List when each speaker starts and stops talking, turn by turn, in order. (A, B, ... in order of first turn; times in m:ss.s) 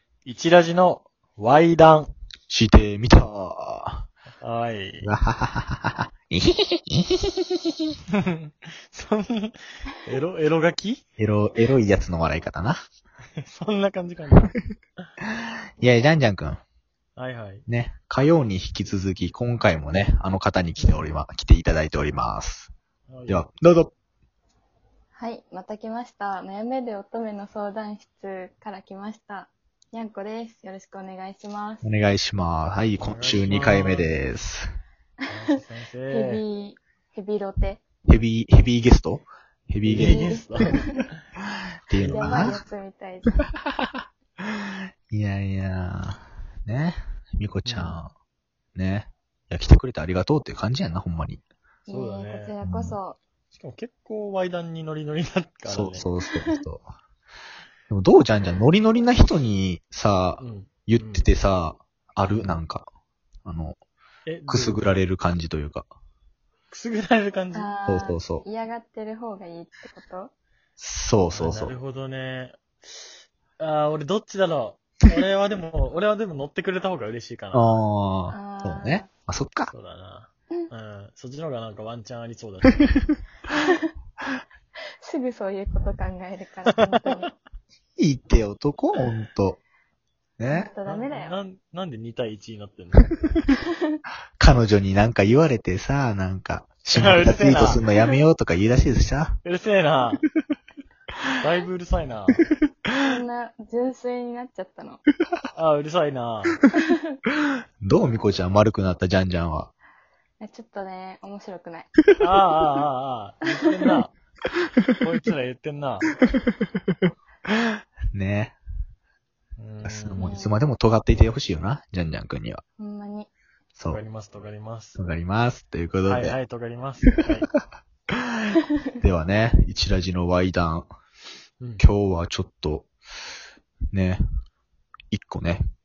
0:00.2-0:02.1 A
0:02.5-0:04.1 B
0:04.4-0:05.1 A
0:05.0-0:07.8 B
0:08.2-0:11.0 A
0:11.2-0:12.8 B
0:13.4-0:14.6 A
0:15.8-0:16.6 B
0:17.2-0:17.6 A
0:17.7-0:22.7 B
0:20.8-0:21.1 A
0:23.1-0:23.4 A
0:23.3-0:23.9 B
0:25.2-0:31.9 C
0:31.8-0:34.7 B
0:33.0-0:34.2 A
0:35.3-0:36.4 A
0:36.1-0:37.8 C
0:38.1-0:40.4 B
0:39.8-0:41.2 A
0:40.0-0:41.0 C
0:41.9-0:42.6 B
0:41.9-0:42.6 A
0:42.1-0:43.5 C
0:43.8-0:48.1 B
0:47.7-0:48.0 A
0:48.8-0:51.4 B
0:51.9-0:53.2 C
0:51.9-0:52.6 A
0:52.6-0:53.0 B
0:53.5-0:56.1 A
0:55.7-0:56.9 B
0:56.3-0:56.6 C
0:57.9-1:02.9 B
1:00.4-1:01.3 A
1:03.4-1:03.8 B
1:04.3-1:04.9 A
1:04.5-1:05.9 B
1:06.7-1:07.7 A
1:07.5-1:10.3 C
1:07.9-1:08.4 B
1:10.8-1:11.8 B
1:11.3-1:17.8 A
1:17.5-1:19.7 B
1:18.3-1:19.1 C
1:19.7-1:22.9 A
1:25.0-1:27.3 C
1:26.8-1:27.2 A
1:28.0-1:29.6 B
1:30.4-1:30.7 B
1:30.5-1:31.4 C
1:30.9-1:33.2 A
1:34.4-1:39.4 B
1:36.9-1:37.8 A
1:39.4-1:40.2 A
1:41.4-1:42.4 A
1:43.0-1:45.0 C
1:45.5-1:46.6 A
1:47.8-1:49.7 B
1:50.4-1:51.9 C
1:52.2-1:54.1 A
1:55.0-1:56.1 A
1:58.1-1:58.6 B
1:59.6-2:00.4 A
1:59.8-2:02.6 B
2:00.2-2:00.6 C
2:02.8-2:03.3 C
2:03.8-2:04.0 B
2:03.9-2:05.0 A
2:05.0-2:06.4 B
2:06.0-2:07.5 A
2:09.0-2:10.9 B
2:11.8-2:12.9 B
2:13.9-2:14.2 B
2:15.1-2:15.6 B